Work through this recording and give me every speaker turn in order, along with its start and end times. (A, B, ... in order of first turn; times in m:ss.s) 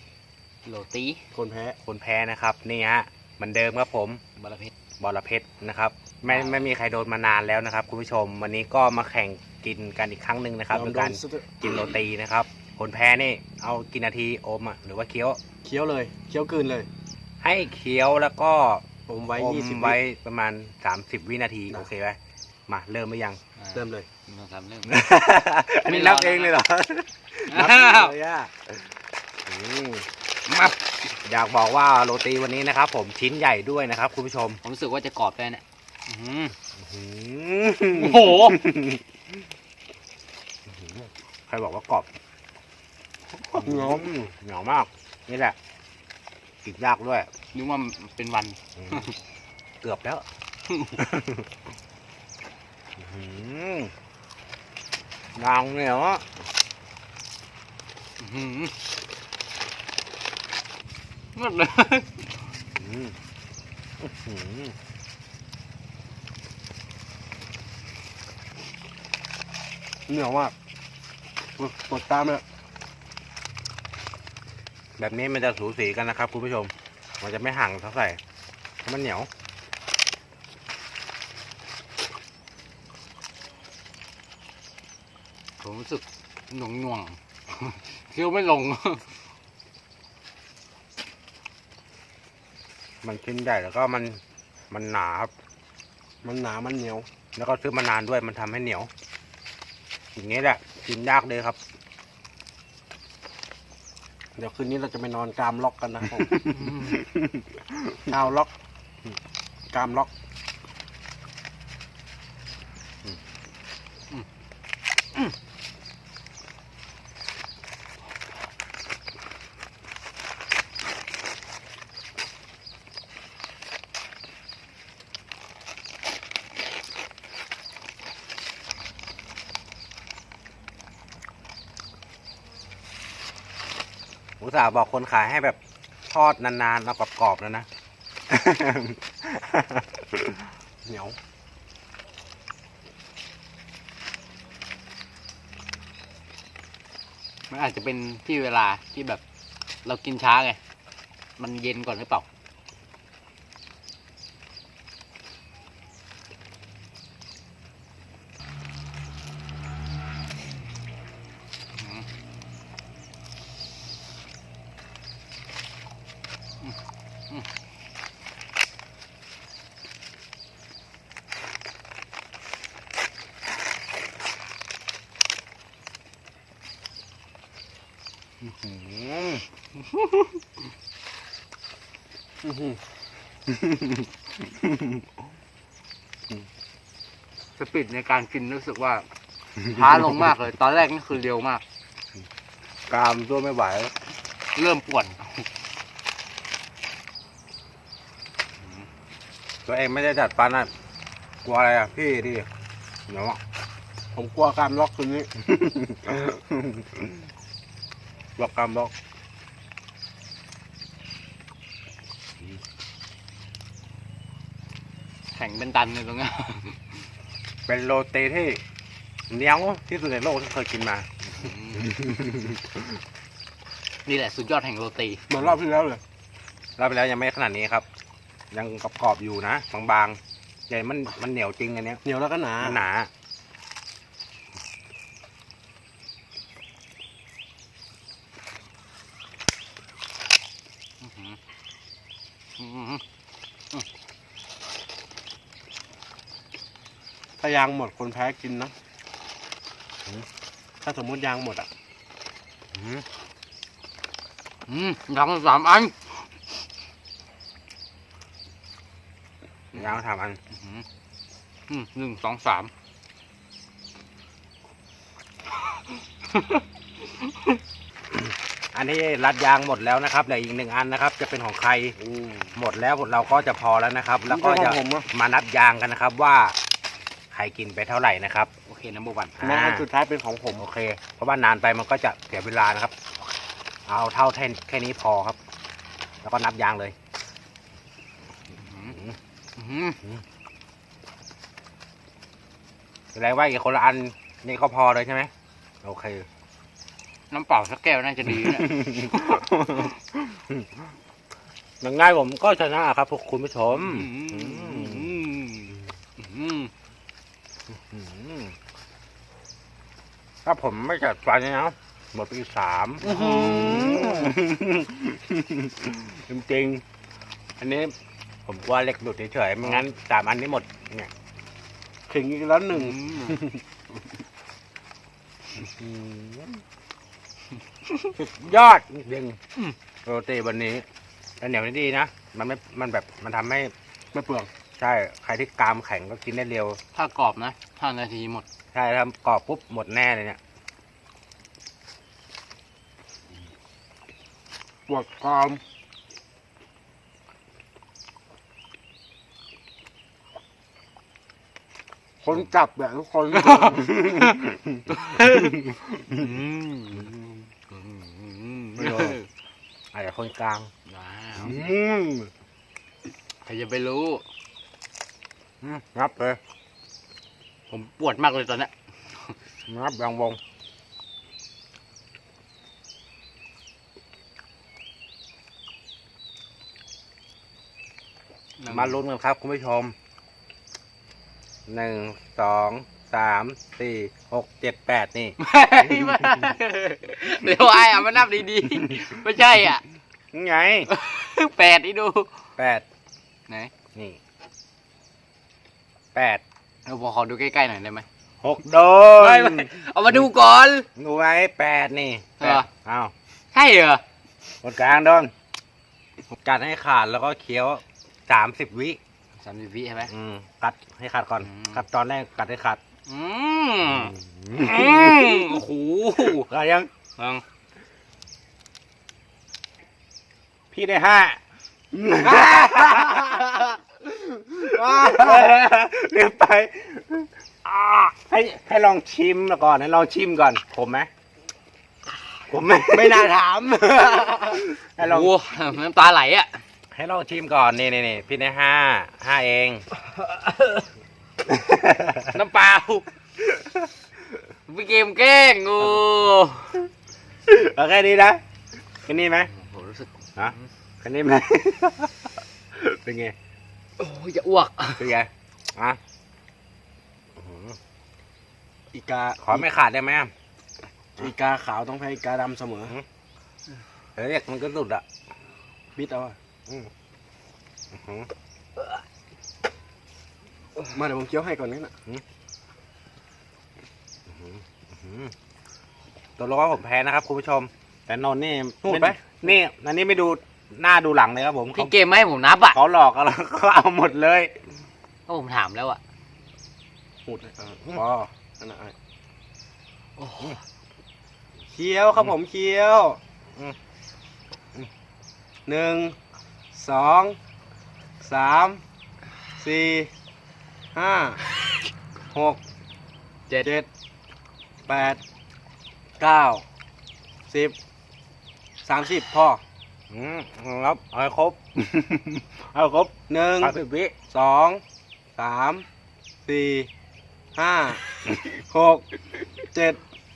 0:00.6-0:01.2 A
0:01.3-0:01.8 B
0:01.8-0:04.2 C
0:04.4-0:04.7 A
0:05.0-0:15.4 C
0:06.3-0:06.7 A
0:10.7-0:11.5 B
0:15.6-0:16.9 B
0:17.4-0:18.8 C
0:19.1-0:20.0 B
0:19.4-0:23.4 C
0:23.6-0:25.0 A
0:23.7-0:24.1 B
0:24.9-0:28.9 C
0:25.8-0:26.6 A
0:27.5-0:28.2 A
0:29.5-0:30.0 C
0:30.5-0:30.7 A
0:31.2-0:34.6 C
0:34.6-0:36.6 A
0:36.8-0:38.8 C
0:37.9-0:38.6 A
0:41.5-0:42.1 C
0:43.5-0:45.6 C
0:43.6-0:44.1 B
0:46.6-0:47.3 C
0:47.5-0:49.1 A
0:49.8-0:50.2 C
0:51.0-0:51.4 C
0:53.0-0:53.9 C
0:55.4-0:56.2 C
0:58.2-0:58.7 A
1:01.4-1:02.2 A
1:02.8-1:03.2 C
1:04.0-1:04.7 C
1:10.1-1:10.5 B
1:11.6-1:12.4 B
1:15.0-1:18.2 C
1:18.8-1:19.3 C
1:25.6-1:29.1 A
1:33.0-1:34.2 C
1:34.7-1:35.3 C
1:36.2-1:37.1 B
1:37.4-1:38.9 C
1:40.2-1:41.6 C
1:44.4-1:46.6 B
1:46.5-1:47.0 A
1:48.1-1:48.5 B
1:49.7-1:50.1 B
2:14.4-2:15.6 C
2:16.1-2:17.7 C
2:18.3-2:20.4 C
2:20.8-2:21.2 B
2:27.5-2:29.2 A
2:29.8-2:30.6 A
2:31.4-2:32.3 A
2:41.8-2:42.0 A
2:58.4-2:59.4 C
3:02.4-3:02.8 B
3:07.6-3:09.1 A
3:09.6-3:11.6 A
3:12.9-3:13.9 C
3:14.6-3:15.5 A
3:19.7-3:20.7 C
3:21.4-3:22.5 C
3:23.1-3:23.4 C
3:24.1-3:25.3 B
3:25.5-3:26.4 C
3:28.4-3:28.9 C
3:35.3-3:37.0 A
3:37.7-3:38.6 C
3:39.3-3:41.1 C
3:41.3-3:41.9 A
3:41.8-3:42.8 C
3:44.1-3:45.2 A
3:45.3-3:46.0 B
3:46.8-3:47.8 C
3:48.5-3:52.0 C
3:52.0-3:52.8 B
3:52.6-3:53.1 C
4:01.0-4:01.4 A
4:02.6-4:03.0 A
4:07.4-4:08.7 B
4:10.8-4:11.7 B
4:12.8-4:13.0 C
4:14.7-4:16.3 A
4:19.7-4:20.0 A
4:19.8-4:20.4 C
4:20.5-4:20.8 A
4:21.7-4:22.7 A
4:26.2-4:26.6 A
4:27.2-4:27.6 A
4:28.7-4:32.0 C
4:32.0-4:32.5 B
4:32.6-4:36.6 C
4:34.3-4:35.1 B
4:37.3-4:38.5 C
4:38.7-4:39.4 A
4:39.4-4:39.9 C
4:39.4-4:40.7 B
4:40.6-4:42.9 C
4:43.9-4:45.4 C
4:46.2-4:47.0 C
4:48.6-4:49.0 A
4:49.6-4:50.0 A
4:53.1-4:55.3 C
4:55.8-4:56.3 C
4:57.3-4:59.9 A
4:58.3-5:00.7 C
5:01.8-5:05.1 C
5:03.7-5:06.7 A
5:07.9-5:08.6 C
5:10.4-5:16.8 C
5:13.0-5:14.2 A
5:13.1-5:14.2 B
5:17.6-5:17.9 C
5:18.5-5:21.1 C
5:22.1-5:23.6 B
5:22.7-5:23.4 A
5:25.8-5:26.6 C
5:28.1-5:29.4 C
5:30.0-5:30.8 C
5:31.4-5:33.7 C
5:34.1-5:34.5 B
5:34.8-5:36.8 C
5:36.9-5:38.4 A
5:38.7-5:40.4 C
5:44.9-5:45.6 B
5:52.2-5:54.1 B
5:53.4-5:54.4 A
5:55.0-5:57.2 A
5:55.4-5:55.8 C
5:57.7-5:59.3 A
5:58.8-5:59.2 C
5:59.9-6:00.7 C
6:00.9-6:01.6 A
6:01.4-6:02.3 C
6:03.4-6:04.2 A
6:05.6-6:06.4 C
6:07.7-6:08.7 A
6:09.7-6:10.4 C
6:18.6-6:19.0 A
6:18.7-6:19.9 C
6:21.7-6:25.4 C
6:25.4-6:29.8 A
6:30.3-6:30.9 C
6:30.9-6:32.3 A
6:32.6-6:32.8 C
6:36.2-6:36.4 C
6:36.9-6:38.1 A
6:38.4-6:40.2 C
6:39.2-6:40.9 A
6:41.0-6:43.1 C
6:42.4-6:42.7 A
6:43.5-6:44.0 A
6:44.6-6:45.3 C
6:46.4-6:49.0 C
6:49.4-6:50.1 A
6:50.1-6:52.8 C
6:51.4-6:51.8 A
6:53.1-6:56.5 A
6:53.9-6:55.6 C
6:56.2-6:56.9 C
6:57.2-6:57.4 A
7:00.7-7:01.4 C
7:01.9-7:03.8 C
7:02.2-7:03.4 B
7:04.3-7:11.1 C
7:04.7-7:05.5 B
7:12.5-7:13.3 C
7:12.9-7:14.7 B
7:14.5-7:15.3 C
7:15.0-7:16.6 A
7:16.9-7:19.8 C
7:21.5-7:22.4 C
7:22.3-7:23.1 A
7:24.7-7:26.8 A
7:27.5-7:28.4 C
7:29.1-7:29.5 C
7:29.4-7:30.7 A
7:30.4-7:33.4 C
7:34.0-7:35.1 A
7:35.0-7:36.0 C
7:37.4-7:37.8 C
7:38.9-7:39.7 B
7:39.4-7:40.3 C
7:41.2-7:43.0 B
7:44.2-7:45.0 C
7:46.0-7:46.4 B
7:47.9-7:48.3 C
7:50.9-7:51.9 B
7:54.3-7:55.3 C
7:56.4-8:01.9 C
7:58.8-7:59.4 B
8:01.8-8:02.8 A
8:02.7-8:04.5 C
8:05.3-8:06.0 A
8:07.3-8:09.0 B
8:10.2-8:10.6 A
8:11.7-8:13.2 B
8:15.7-8:16.2 B
8:16.7-8:17.4 B
8:18.2-8:18.8 B
8:19.6-8:20.1 B
8:20.9-8:21.4 B
8:22.3-8:22.6 B
8:23.6-8:23.9 B
8:24.9-8:25.2 B
8:26.2-8:26.6 B
8:27.5-8:27.8 B
8:28.8-8:29.6 B
8:30.1-8:34.1 C
8:33.3-8:33.8 B
8:34.3-8:34.8 B
8:35.4-8:35.9 B
8:36.5-8:36.9 B
8:37.6-8:39.0 B
8:39.7-8:40.0 B